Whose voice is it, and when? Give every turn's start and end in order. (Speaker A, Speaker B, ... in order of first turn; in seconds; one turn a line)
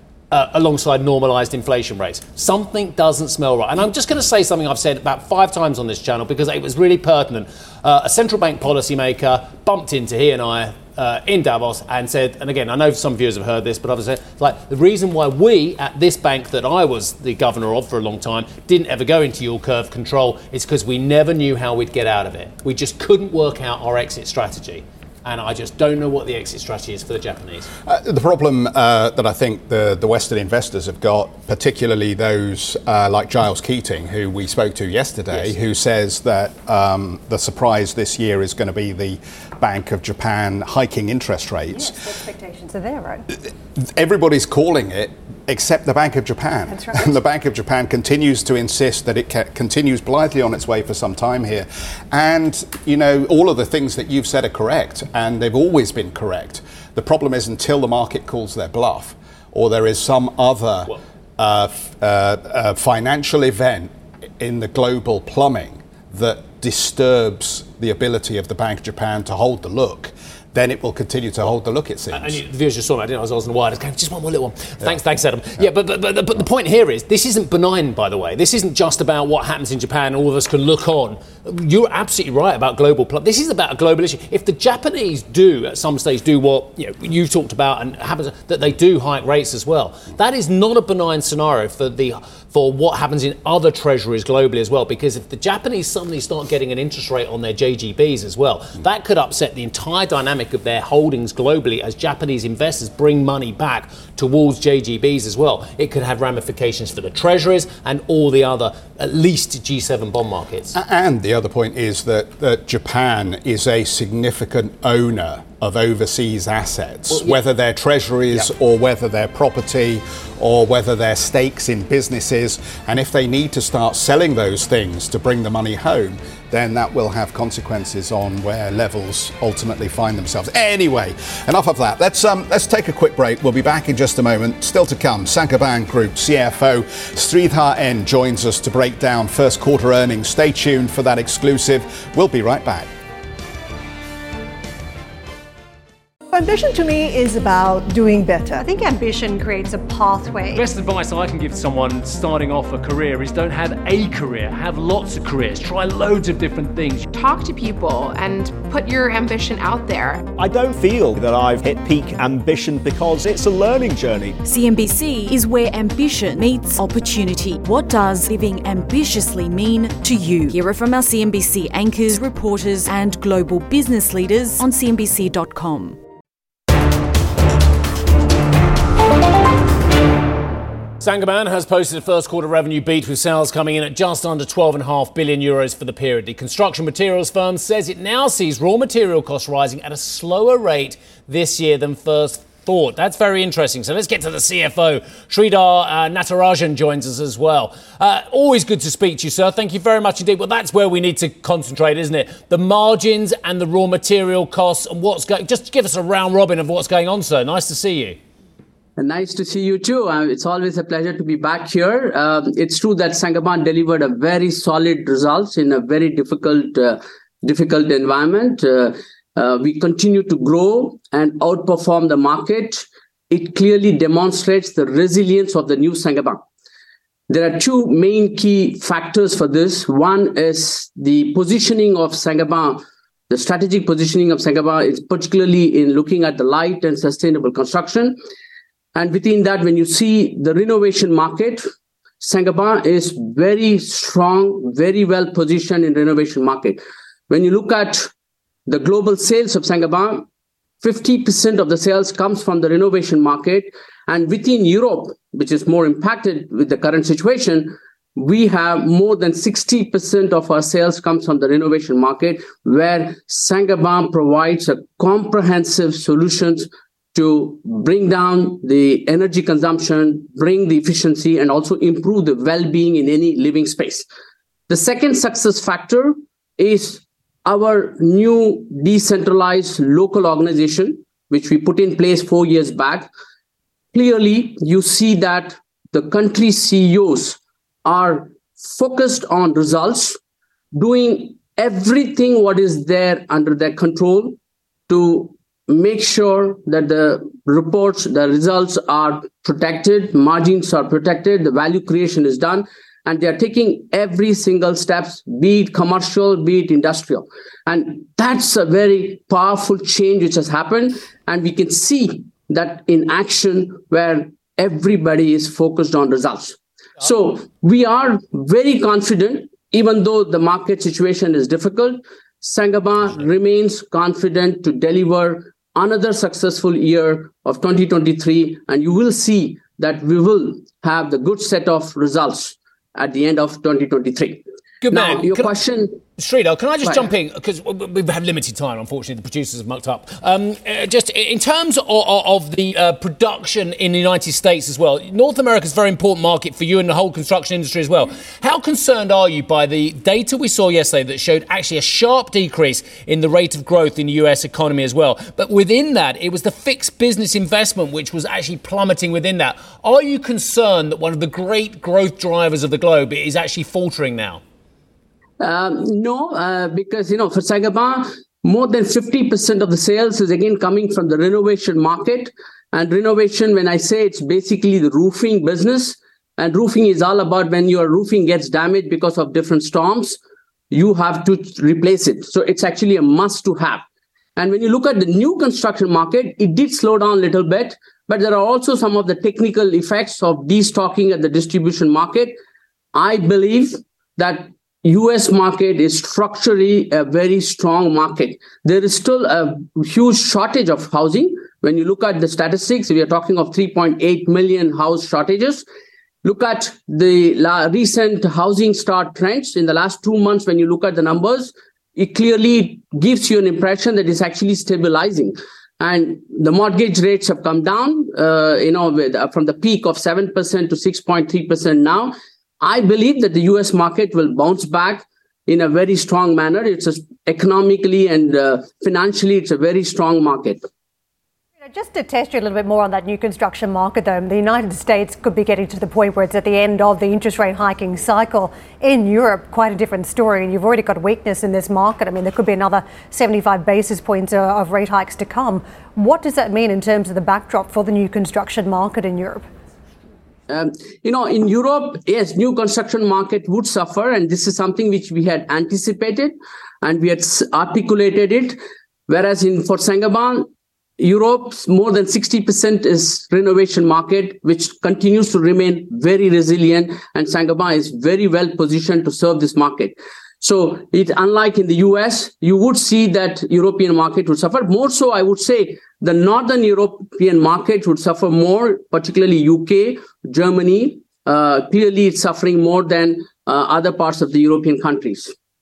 Speaker A: 0.3-27.7
Speaker B: 27.9-41.9
Speaker C: 41.7-43.3
Speaker B: 43.7-72.4
Speaker C: 46.7-47.2
Speaker A: 72.1-110.8
Speaker B: 110.7-142.9
Speaker A: 117.1-117.4
Speaker D: 146.3-148.6
Speaker C: 148.6-150.6
Speaker A: 150.5-157.1
Speaker E: 157.1-160.3
Speaker F: 160.4-164.4
Speaker G: 164.4-176.0
Speaker A: 181.0-208.2
Speaker H: 209.0-226.4
Speaker H: 227.3-238.2
Speaker H: 238.9-241.6
Speaker H: 242.2-248.1
Speaker H: 248.7-250.2
Speaker H: 250.8-274.1
Speaker H: 274.7-283.1
Speaker H: 283.9-290.2
Speaker H: 290.7-336.0
Speaker A: 334.8-335.5
Speaker A: 336.1-364.4
Speaker H: 365.4-380.2
Speaker H: 380.7-383.8
Speaker H: 384.4-392.4
Speaker H: 392.9-405.6
Speaker H: 406.2-430.6
Speaker C: 431.6-449.5
Speaker H: 450.5-460.5
Speaker H: 461.0-485.3